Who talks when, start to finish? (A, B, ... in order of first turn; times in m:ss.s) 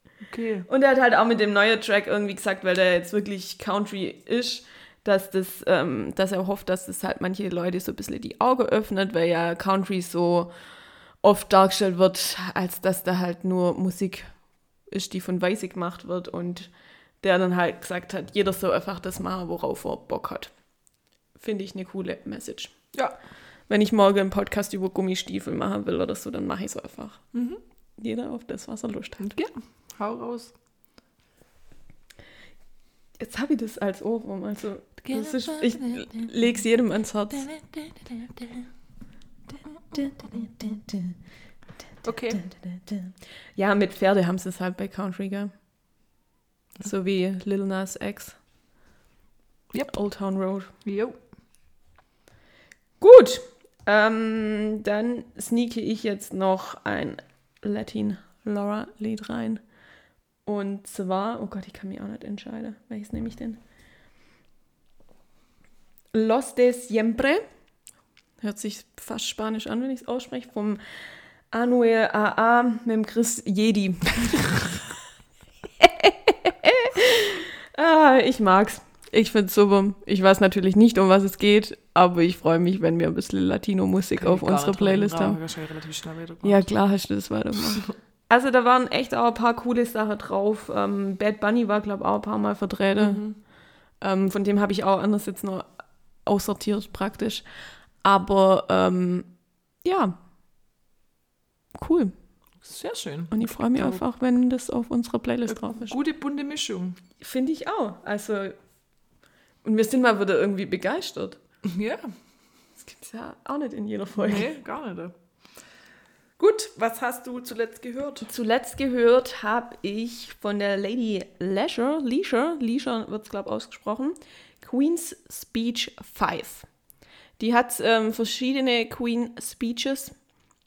0:00.2-0:00.7 A
0:00.7-0:10.5 B
0:11.2-0:14.3 B
0:14.9-0:16.7 B
0:17.2-0:20.5 B
0:21.4-0:22.8 B
0:23.7-0:27.2 B
0:27.3-0:27.6 A
0:28.0-0:29.4 B
0:29.2-0:30.5 A
0:33.2-0:37.5 B
0:35.0-0:36.3 A
0:37.3-0:38.7 A
0:39.9-0:41.2 B
0:42.0-0:42.4 A
0:42.3-0:45.5 B
0:46.8-0:48.4 B
0:49.9-0:50.7 B
0:50.8-0:51.2 A
0:53.0-0:59.6 B
1:00.5-1:03.6 B
1:06.1-1:07.4 B
1:08.4-1:10.8 B
1:11.5-1:14.8 B
1:15.8-1:25.4 B
1:24.2-1:26.7 A
1:26.4-1:33.2 B
1:33.0-1:33.4 A
1:34.0-1:35.7 B
1:36.3-1:37.4 B
1:38.0-1:39.3 B
1:39.8-1:40.2 B
1:41.8-1:42.1 B
1:42.6-1:44.0 A
1:43.3-1:46.0 B
1:45.5-1:47.0 A
1:47.2-1:48.6 B
1:49.6-1:51.4 B
1:51.6-1:52.0 A
1:52.8-1:54.5 B
1:54.2-1:55.1 A
1:56.4-1:58.3 A
1:58.3-2:06.7 B
2:07.4-2:10.2 B